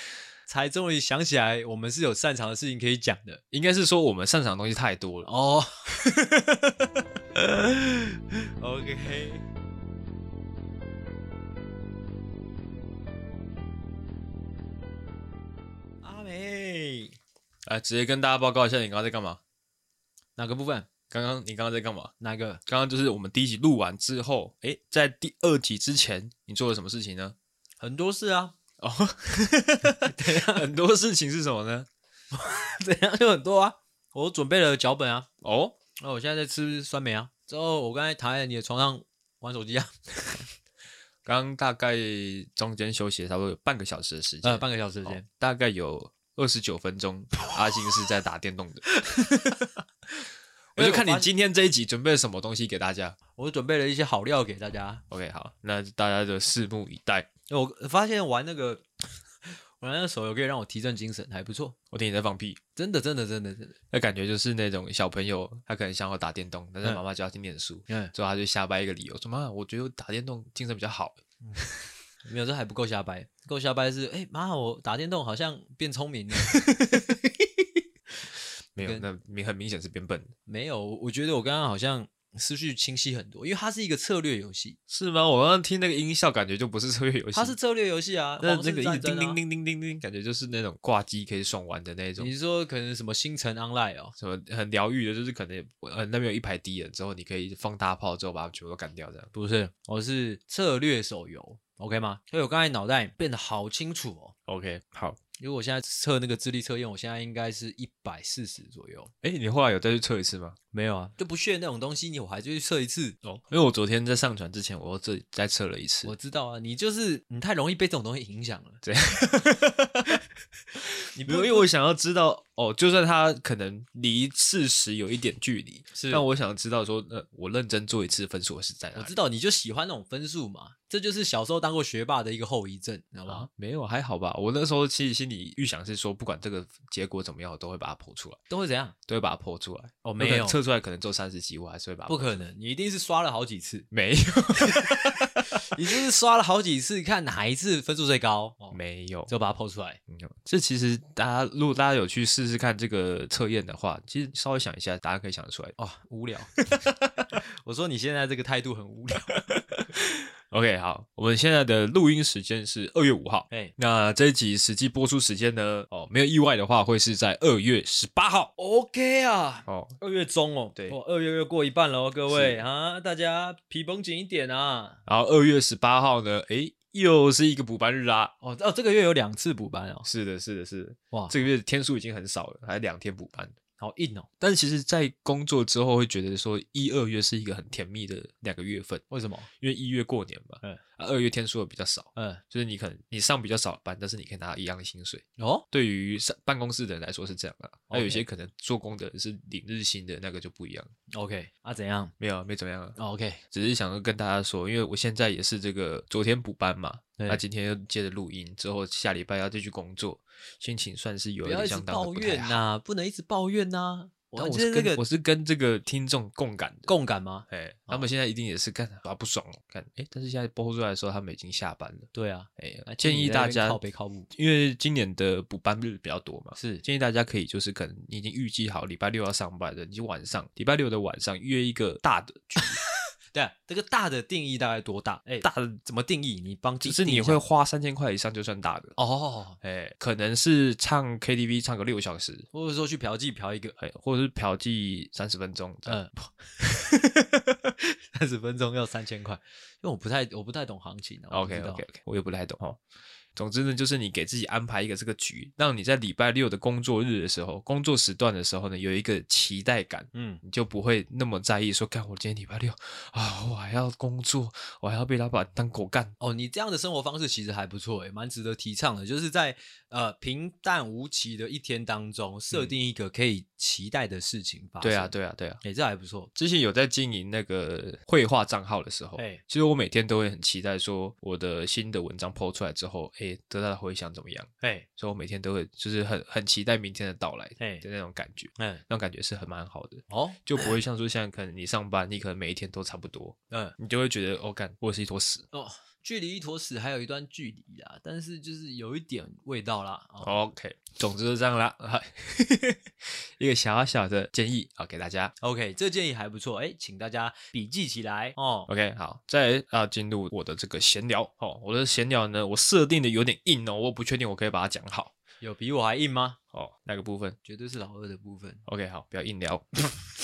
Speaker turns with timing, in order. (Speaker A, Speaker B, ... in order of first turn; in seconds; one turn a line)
Speaker A: 0.5-3.4
Speaker B: 3.5-5.3
Speaker A: 5.2-6.1
Speaker A: 7.3-9.5
Speaker A: 16.0-17.2
Speaker B: 17.7-19.4
Speaker A: 20.4-20.9
Speaker B: 21.1-22.1
Speaker A: 22.2-22.6
Speaker B: 22.7-27.4
Speaker A: 27.8-28.6
Speaker B: 28.8-31.9
Speaker A: 29.8-30.7
Speaker A: 32.3-35.3
Speaker B: 35.4-35.8
Speaker A: 36.0-40.5
Speaker B: 41.2-49.7
Speaker A: 44.4-45.2
Speaker A: 49.1-49.5
Speaker A: 50.8-51.3
Speaker B: 50.8-53.2
Speaker A: 53.4-55.0
Speaker B: 55.1-57.3
Speaker A: 57.5-58.9
Speaker A: 59.4-61.8
Speaker B: 61.9-62.6
Speaker A: 62.8-63.8
Speaker B: 63.9-71.2
Speaker A: 67.9-68.1
Speaker A: 72.2-77.8
Speaker B: 76.5-77.0
Speaker B: 78.8-80.3
Speaker A: 78.8-79.0
Speaker A: 80.5-84.8
Speaker B: 84.9-87.6
Speaker A: 87.3-89.4
Speaker B: 88.4-92.3
Speaker A: 92.2-94.2
Speaker B: 94.2-99.3
Speaker A: 99.3-104.3
Speaker B: 104.5-105.2
Speaker A: 105.4-109.1
Speaker B: 109.2-110.6
Speaker A: 110.7-113.2
Speaker B: 113.2-116.1
Speaker A: 116.0-118.8
Speaker B: 118.8-120.2
Speaker B: 120.8-129.2
Speaker A: 121.1-121.7
Speaker A: 125.9-126.2
Speaker A: 128.9-133.5
Speaker B: 133.3-138.4
Speaker A: 138.5-138.9
Speaker B: 139.1-142.4
Speaker A: 140.0-140.6
Speaker A: 142.1-143.9
Speaker B: 143.9-146.0
Speaker A: 144.6-150.0
Speaker B: 148.7-149.3
Speaker B: 150.1-155.8
Speaker A: 155.8-156.6
Speaker B: 156.6-157.4
Speaker A: 157.3-159.4
Speaker B: 159.3-168.5
Speaker A: 168.6-175.0
Speaker B: 169.7-169.9
Speaker B: 172.3-172.6
Speaker B: 175.1-178.3
Speaker A: 178.4-180.1
Speaker B: 180.0-183.6
Speaker A: 181.1-181.4
Speaker A: 183.8-184.3
Speaker B: 184.4-189.0
Speaker A: 189.1-189.5
Speaker B: 189.6-200.9
Speaker A: 192.2-192.4
Speaker A: 195.4-195.7
Speaker A: 197.9-198.2
Speaker A: 201.1-202.1
Speaker B: 202.2-203.0
Speaker A: 203.0-203.4
Speaker B: 203.5-212.6
Speaker A: 211.4-215.0
Speaker B: 214.4-216.9
Speaker A: 216.9-218.1
Speaker B: 217.5-223.8
Speaker A: 222.1-224.3
Speaker B: 224.3-232.8
Speaker A: 226.6-226.8
Speaker A: 233.3-237.4
Speaker B: 235.4-235.8
Speaker B: 236.8-239.0
Speaker A: 239.0-239.6
Speaker B: 239.6-242.5
Speaker A: 242.5-243.8
Speaker B: 243.8-246.0
Speaker A: 245.9-251.8
Speaker B: 251.3-252.8
Speaker B: 253.3-266.1
Speaker A: 260.1-260.4
Speaker A: 266.2-276.3
Speaker B: 274.8-275.6
Speaker B: 276.4-295.5
Speaker A: 279.2-279.4
Speaker A: 284.6-284.9
Speaker A: 287.6-287.9
Speaker A: 288.6-288.8
Speaker A: 290.1-290.8
Speaker A: 293.5-293.8
Speaker A: 295.5-300.4
Speaker B: 300.2-305.3
Speaker A: 305.4-308.7
Speaker B: 308.7-315.1
Speaker A: 315.4-316.4
Speaker B: 316.5-317.4
Speaker A: 317.4-318.6
Speaker B: 318.7-320.1